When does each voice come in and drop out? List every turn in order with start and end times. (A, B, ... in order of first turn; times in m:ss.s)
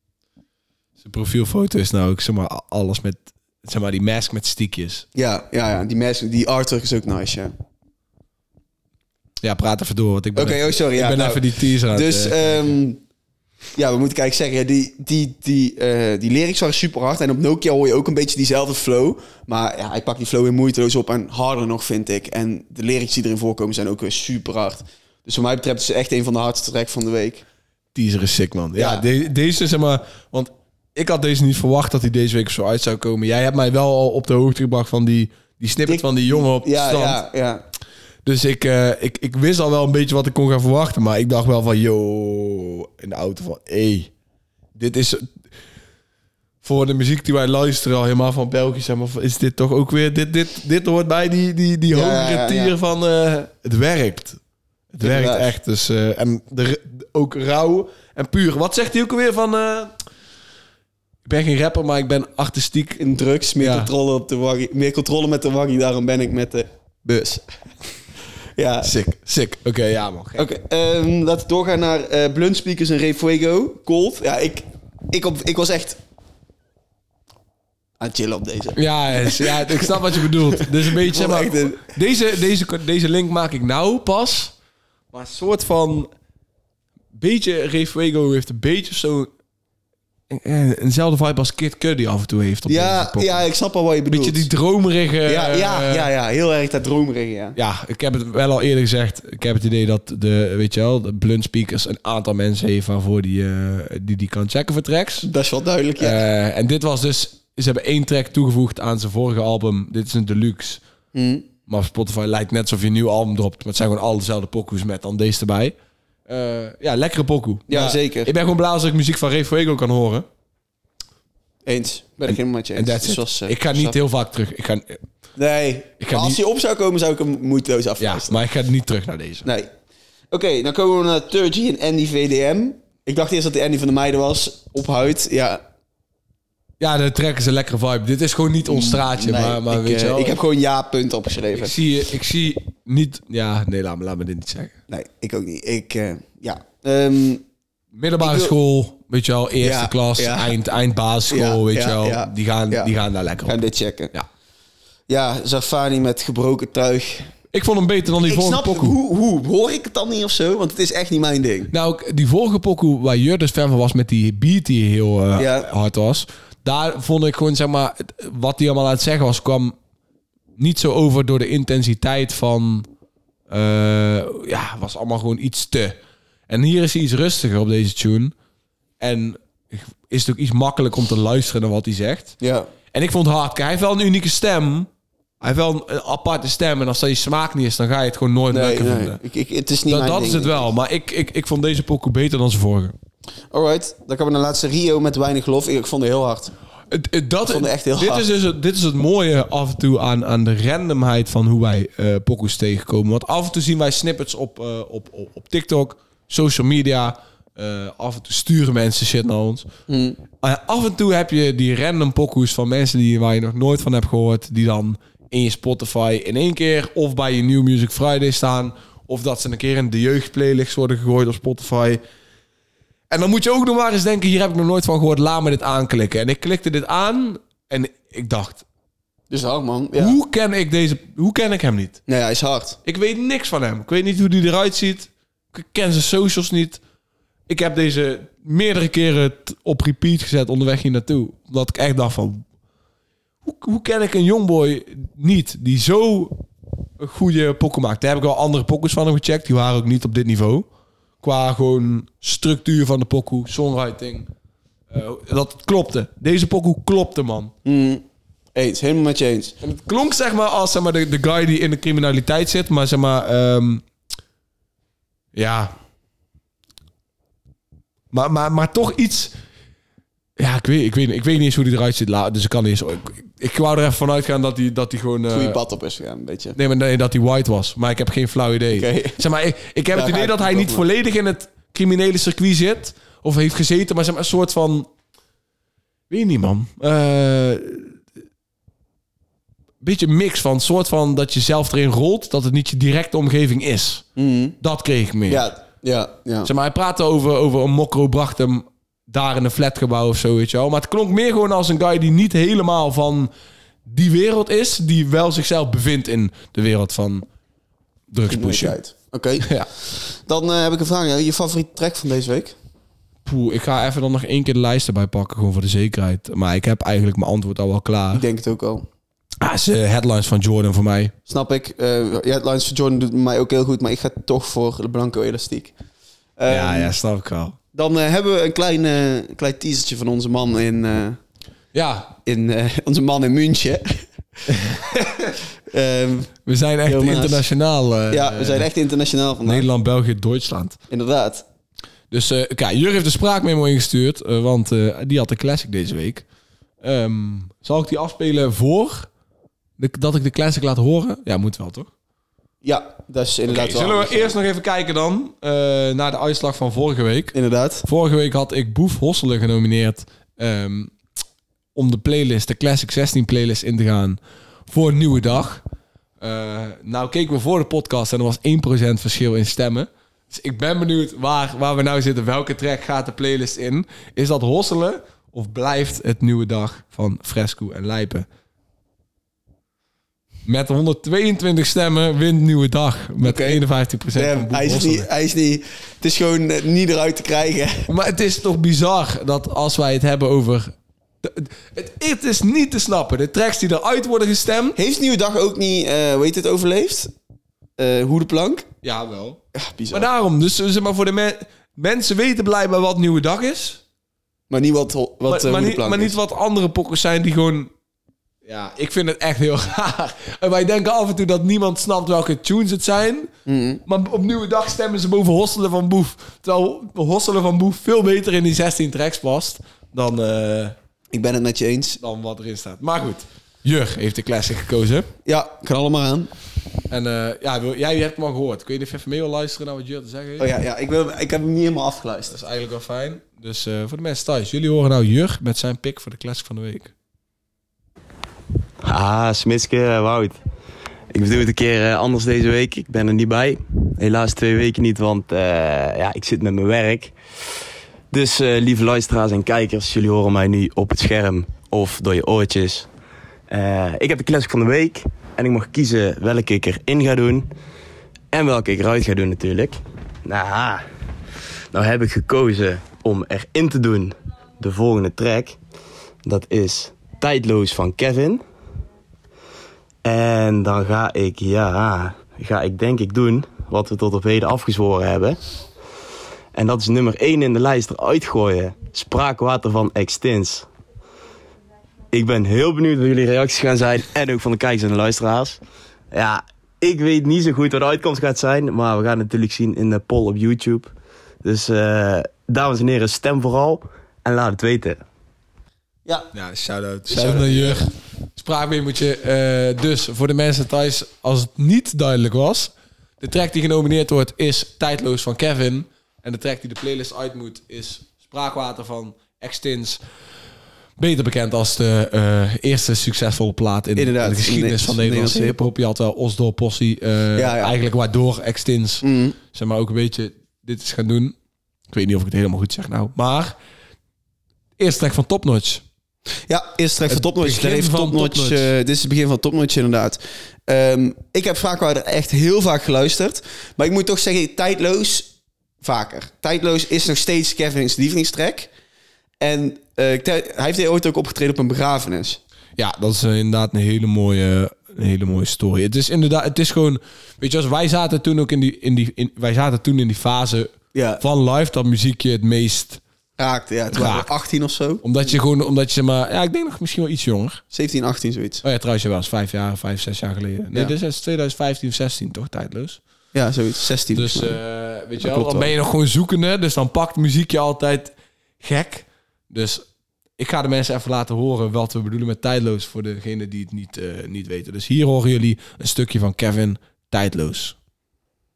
0:01.0-0:05.1 A
0:05.2-0:07.5 B
0:09.4-0:12.7 A
0:10.4-0:13.0 B
0:13.8-0:27.4 B
0:27.9-0:37.2 A
0:28.8-0:29.0 B
0:35.9-0:37.6 B
0:38.2-0:44.1 A
0:44.8-0:45.4 A
0:46.6-0:54.4 A
0:51.9-0:52.8 B
0:54.9-0:59.9 A
0:55.0-0:55.5 B
1:01.2-1:03.0 A
1:03.0-1:07.4 B
1:03.6-1:03.9 A
1:08.6-1:08.9 B
1:08.8-1:10.5 A
1:10.4-1:16.0 B
1:18.0-1:21.9 B
1:18.8-1:24.5 A
1:25.1-1:26.1 A
1:27.1-1:29.3 A
1:30.3-1:33.4 A
1:32.7-1:34.5 B
1:34.1-1:36.1 A
1:35.3-1:37.6 B
1:37.6-1:45.3 A
1:45.2-1:46.2 B
1:46.0-1:50.8 A
1:51.1-1:51.5 B
1:51.7-1:55.8 A
1:56.3-2:00.3 A
1:57.7-1:58.3 B
2:01.7-2:04.0 B
2:02.3-2:05.0 A
2:05.4-2:08.4 B
2:06.0-2:06.4 A
2:08.0-2:09.5 A
2:09.4-2:09.7 B
2:10.3-2:15.6 B
2:16.8-2:20.4 A
2:18.7-2:21.8 B
2:21.5-2:24.7 A
2:24.9-2:27.4 B
2:27.9-2:33.6 A
2:28.2-2:28.5 B
2:29.6-2:30.5 B
2:31.3-2:32.9 B
2:33.5-2:34.1 B
2:35.1-2:37.3 B
2:37.5-2:39.0 A
2:38.2-2:41.7 B
2:41.7-2:49.8 A
2:45.4-2:45.7 B
2:50.6-2:52.9 A
2:53.5-2:56.0 A
2:56.5-2:58.4 A
2:59.0-3:02.4 A
3:02.4-3:02.7 B
3:02.9-3:04.9 A
3:05.4-3:09.2 A
3:08.5-3:10.7 B
3:09.9-3:13.0 A
3:13.5-3:16.5 B
3:16.9-3:29.7 A
3:17.5-3:18.3 B
3:29.9-3:30.2 B
3:30.4-3:42.0 A
3:43.1-3:48.6 A
3:49.3-3:50.2 B
3:50.0-3:52.0 A
3:52.1-3:52.8 B
3:52.9-3:56.8 A
3:57.5-4:02.4 A
4:03.4-4:06.4 A
4:07.0-4:10.7 A
4:11.2-4:14.3 A
4:14.9-4:17.5 A
4:17.6-4:18.0 B
4:18.6-4:19.6 B
4:19.6-4:23.8 A
4:25.4-4:25.8 A
4:28.1-4:29.3 A
4:30.4-4:35.6 A
4:35.3-4:36.6 B
4:36.6-4:44.9 A
4:38.7-4:39.2 B
4:39.9-4:40.8 B
4:46.1-4:48.0 A
4:49.8-4:54.0 A
4:54.2-4:54.6 B
4:54.6-4:55.5 A
4:55.3-4:56.5 B
4:56.4-5:03.3 A
5:03.9-5:07.3 A
5:08.1-5:08.8 A
5:08.3-5:12.6 B
5:09.4-5:09.7 A
5:13.2-5:18.2 A
5:18.1-5:18.9 B
5:19.4-5:21.1 A
5:21.3-5:25.7 B
5:26.4-5:26.9 B
5:26.5-5:27.6 A
5:27.7-5:31.2 B
5:31.7-5:32.2 A
5:32.2-5:34.0 B
5:34.5-5:35.3 A
5:35.7-5:37.4 B
5:36.5-5:38.7 A
5:38.1-5:39.7 B
5:39.4-5:40.8 A
5:40.9-5:41.5 B
5:42.1-5:46.2 A
5:46.8-5:49.1 A
5:49.8-5:51.9 A
5:52.6-5:54.3 B
5:53.5-6:00.9 A
5:57.3-5:57.9 B
6:01.8-6:05.6 A
6:06.2-6:18.3 A
6:20.4-6:25.1 A
6:23.2-6:23.6 B
6:24.2-6:27.9 B
6:27.9-6:34.8 A
6:34.8-6:37.1 B
6:37.8-6:38.7 B
6:38.8-6:39.4 A
6:39.5-6:40.1 B
6:39.9-6:43.8 A
6:44.5-6:46.2 B
6:45.3-6:47.7 A
6:48.4-6:53.3 A
6:53.5-6:53.8 B
6:53.9-7:00.8 A
7:01.1-7:02.0 B
7:02.0-7:05.1 A
7:05.3-7:06.3 B
7:06.9-7:10.5 A
7:10.4-7:12.3 B
7:12.3-7:16.9 A
7:18.8-7:20.4 C
7:21.1-7:27.1 C
7:28.1-7:32.9 C
7:33.5-7:37.5 C
7:38.3-7:40.8 C
7:41.7-7:45.6 C
7:46.2-7:48.4 C
7:50.0-7:55.4 C
7:56.6-8:00.7 C
8:02.1-8:05.6 C
8:06.1-8:10.9 C
8:11.4-8:15.0 C
8:16.3-8:30.0 A
8:17.1-8:17.9 B
8:31.0-8:41.4 A
8:34.0-8:35.6 B
8:37.4-8:37.7 B
8:39.0-8:39.4 B
8:41.9-8:43.6 A
8:44.8-8:45.8 A
8:46.5-8:58.7 B
8:47.1-8:48.7 A
8:59.4-9:02.4 B
9:02.8-9:13.0 A
9:10.9-9:11.2 B
9:13.4-9:15.0 B
9:13.9-9:14.3 A
9:15.0-9:17.6 A
9:17.7-9:18.6 B
9:18.6-9:23.0 A
9:23.3-9:24.6 B
9:24.1-9:29.9 A
9:25.2-9:25.7 B
9:30.4-9:37.8 A